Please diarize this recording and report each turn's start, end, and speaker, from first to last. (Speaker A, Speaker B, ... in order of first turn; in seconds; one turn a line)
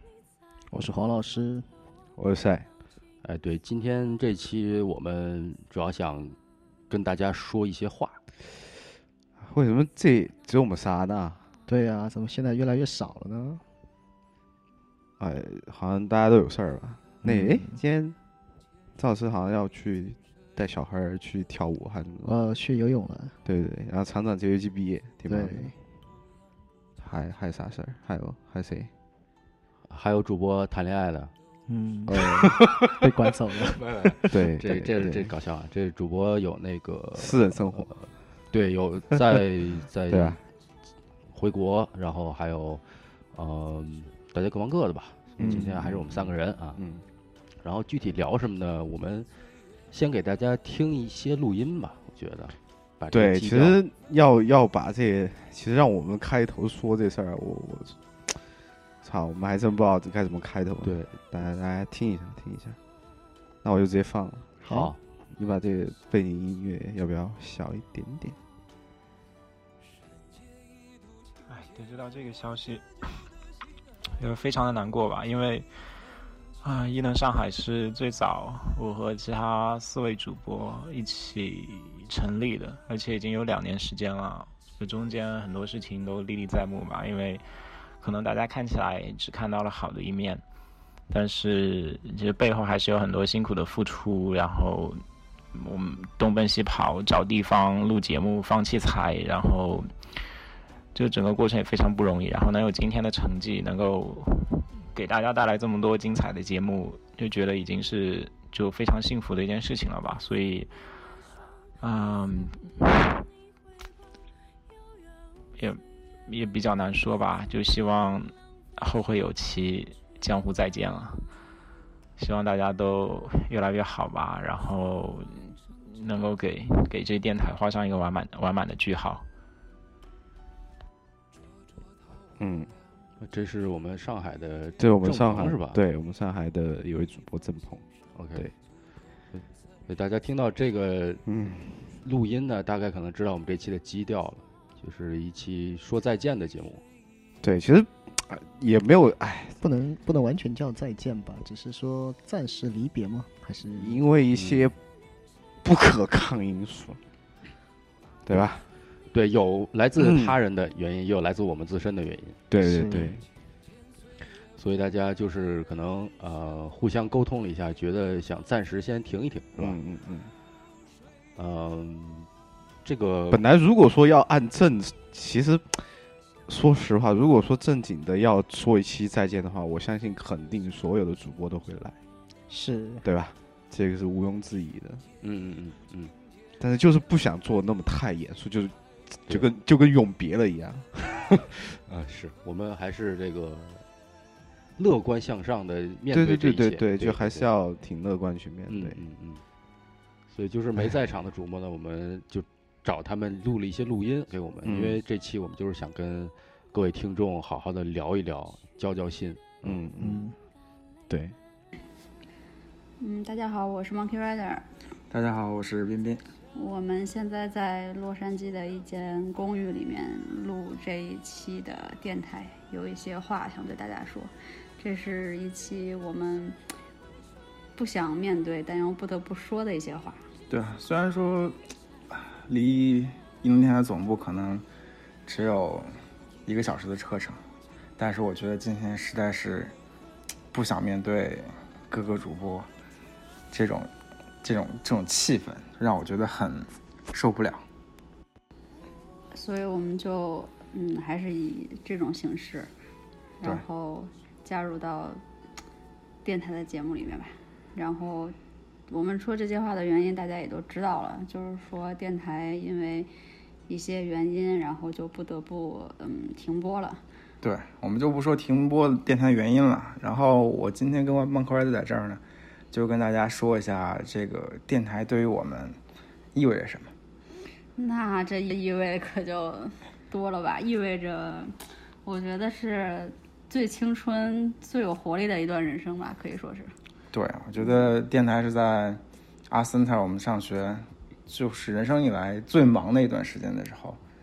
Speaker A: 0.7-1.6
Speaker B: 2.2-2.7
Speaker C: 3.2-6.3
Speaker C: 6.9-8.2
Speaker B: 9.4-11.5
Speaker A: 11.7-13.6
Speaker B: 15.2-18.1
Speaker A: 17.2-17.8
Speaker B: 18.9-22.3
Speaker A: 22.2-23.4
Speaker B: 23.4-25.8
Speaker A: 25.3-25.8
Speaker B: 27.0-28.9
Speaker C: 29.9-31.3
Speaker A: 31.7-34.3
Speaker B: 32.1-33.0
Speaker B: 34.3-35.3
Speaker C: 34.6-40.4
Speaker B: 37.1-38.0
Speaker B: 40.1-40.4
Speaker C: 41.3-42.8
Speaker C: 43.3-46.8
Speaker B: 45.4-47.0
Speaker C: 47.6-49.3
Speaker C: 49.9-53.8
Speaker B: 53.1-58.4
Speaker B: 59.0-62.8
Speaker C: 60.8-61.1
Speaker B: 63.6-64.5
Speaker A: 64.6-64.9
Speaker C: 64.7-65.0
Speaker B: 65.3-68.4
Speaker D: 71.5-73.2
Speaker D: 74.2-75.7
Speaker D: 76.6-87.4
Speaker D: 88.0-90.4
Speaker D: 91.1-95.0
Speaker D: 95.5-99.9
Speaker D: 100.9-110.7
Speaker D: 111.8-113.2
Speaker D: 115.6-121.2
Speaker D: 122.2-129.2
Speaker B: 132.4-132.7
Speaker C: 133.2-135.8
Speaker B: 134.8-138.5
Speaker C: 138.1-138.5
Speaker C: 139.3-141.2
Speaker B: 141.2-141.9
Speaker C: 142.0-146.8
Speaker B: 147.4-149.6
Speaker A: 149.6-154.0
Speaker B: 153.8-154.7
Speaker C: 154.3-154.7
Speaker B: 155.6-157.0
Speaker B: 158.2-158.6
Speaker C: 159.1-162.4
Speaker B: 160.0-160.3
Speaker B: 162.5-163.2
Speaker A: 162.6-163.2
Speaker C: 164.6-169.8
Speaker B: 169.6-170.3
Speaker C: 171.3-172.3
Speaker C: 172.8-173.4
Speaker B: 173.3-175.9
Speaker B: 176.5-181.9
Speaker A: 182.5-183.0
Speaker B: 183.0-185.0
Speaker C: 185.2-186.1
Speaker B: 186.6-191.6
Speaker C: 191.9-193.8
Speaker C: 194.8-197.5
Speaker B: 196.1-199.0
Speaker C: 198.7-199.4
Speaker C: 200.3-209.8
Speaker B: 204.6-205.0
Speaker B: 209.6-210.2
Speaker A: 210.0-210.3
Speaker B: 211.1-211.3
Speaker E: 213.0-214.6
Speaker F: 215.1-216.2
Speaker E: 216.5-226.6
Speaker E: 227.8-230.2
Speaker F: 230.5-231.6
Speaker F: 232.1-234.6
Speaker F: 235.3-235.9
Speaker F: 236.4-237.4
Speaker F: 238.0-239.7
Speaker F: 240.5-242.7
Speaker F: 243.5-243.9
Speaker F: 244.4-247.6
Speaker E: 249.3-252.7
Speaker E: 253.4-255.2
Speaker E: 256.2-258.3
Speaker E: 258.9-263.1
Speaker E: 263.7-267.0
Speaker F: 267.4-275.8
Speaker F: 276.3-276.9
Speaker E: 277.8-281.5
Speaker E: 282.0-286.7
Speaker F: 287.1-294.0